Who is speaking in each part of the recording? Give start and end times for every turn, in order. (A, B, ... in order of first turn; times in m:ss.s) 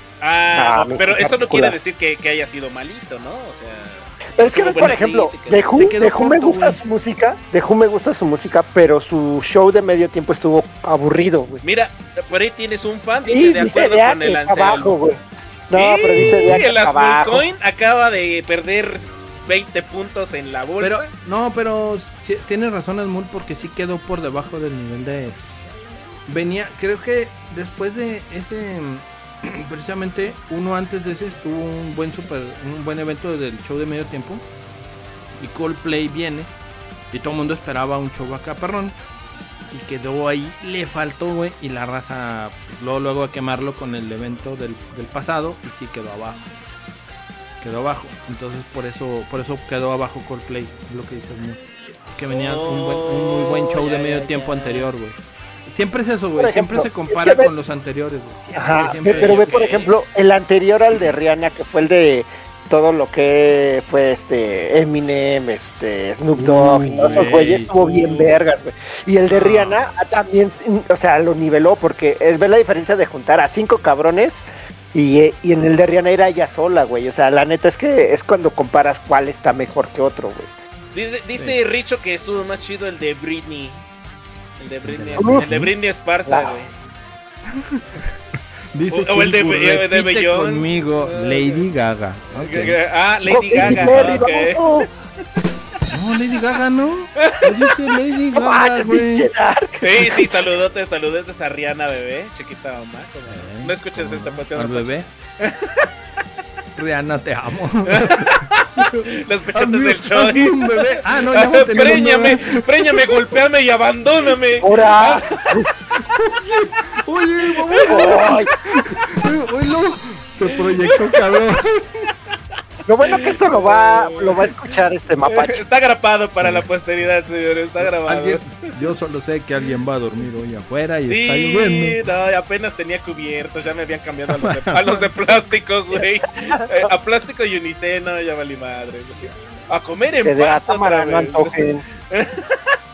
0:00.2-0:05.9 A
0:00.5-0:01.8 B
0:04.4-0:11.6 B
0:05.7-0:06.8 C
0:11.6-0:15.0 A
0:13.3-0:15.2 B
0:15.7-0:17.5 B
0:15.7-0:21.1 A
0:16.2-0:16.6 C
0:20.8-0:25.4 C
0:26.3-0:34.4 C
0:35.4-0:36.5 C
0:37.1-0:39.0 C
0:39.7-0:46.5 C
0:47.6-0:51.6 C
0:52.1-0:59.5 C
0:52.3-0:54.9 A
0:56.4-0:57.5 B
0:58.5-1:20.5 B
0:59.0-0:59.9 A
1:06.4-1:08.3 C
1:07.0-1:07.5 A
1:09.3-1:09.8 C
1:20.9-1:23.8 A
1:24.6-1:26.7 A
1:24.8-1:25.7 C
1:25.2-1:25.6 B
1:26.3-1:26.6 B
1:27.5-1:28.0 C
1:28.7-1:32.8 C
1:28.9-1:31.7 A
1:32.3-1:34.9 A
1:33.2-1:34.9 B
1:33.5-1:34.2 C
1:35.9-1:39.3 C
1:37.2-1:37.7 A
1:38.3-1:40.4 B
1:39.8-1:45.9 A
1:43.3-1:45.1 C
1:46.8-1:53.2 C
1:47.8-1:55.6 A
1:54.6-1:55.7 B
1:56.0-2:02.1 C
1:57.5-1:58.2 A
1:57.8-1:58.5 B
2:00.5-2:01.2 A
2:02.8-2:05.6 B
2:03.0-2:04.5 A
2:05.2-2:08.7 A
2:06.4-2:06.7 C
2:07.8-2:12.0 C
2:11.1-2:21.5 A
2:14.3-2:15.1 C
2:20.2-2:21.8 B
2:22.1-2:22.8 A